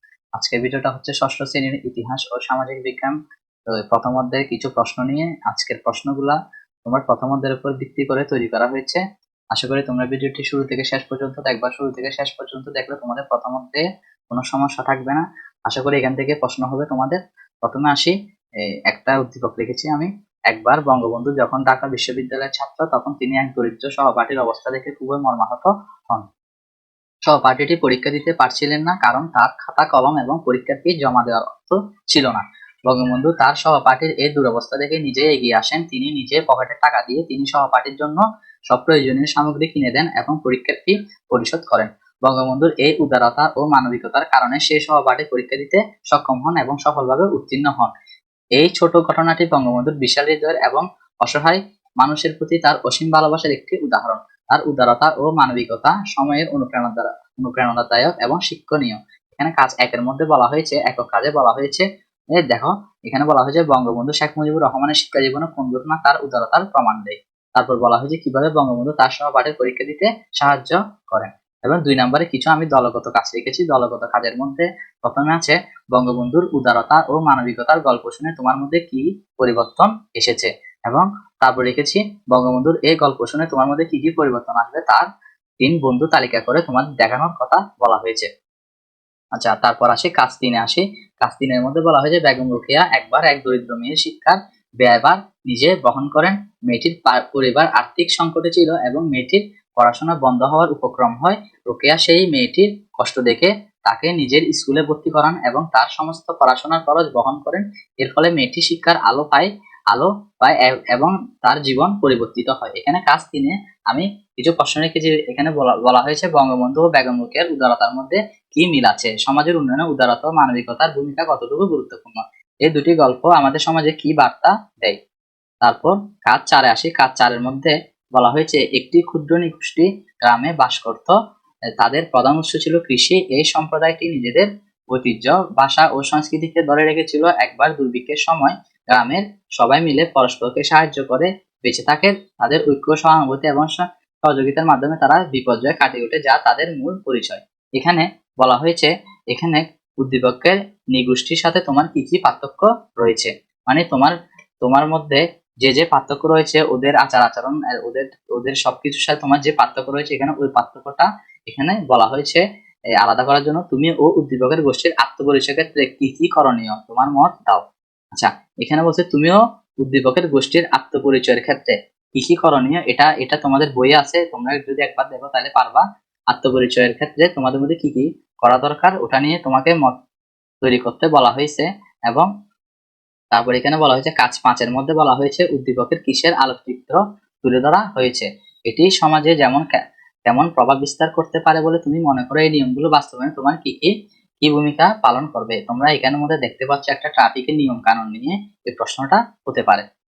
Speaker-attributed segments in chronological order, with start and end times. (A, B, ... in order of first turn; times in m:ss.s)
0:00.4-0:03.2 A
0:03.7-0:09.0 A
0:09.5-0:18.1 A
0:18.9-0:26.2 A
0:27.3-0:47.9 A
0:48.6-1:01.9 A
1:02.4-1:25.1 A
1:25.6-1:28.3 A
1:29.4-2:05.0 A
2:05.6-2:11.1 A
2:11.8-2:42.4 A
2:43.0-2:59.9 A
3:00.6-3:02.3 A
3:03.3-3:13.9 A
3:14.4-3:19.8 A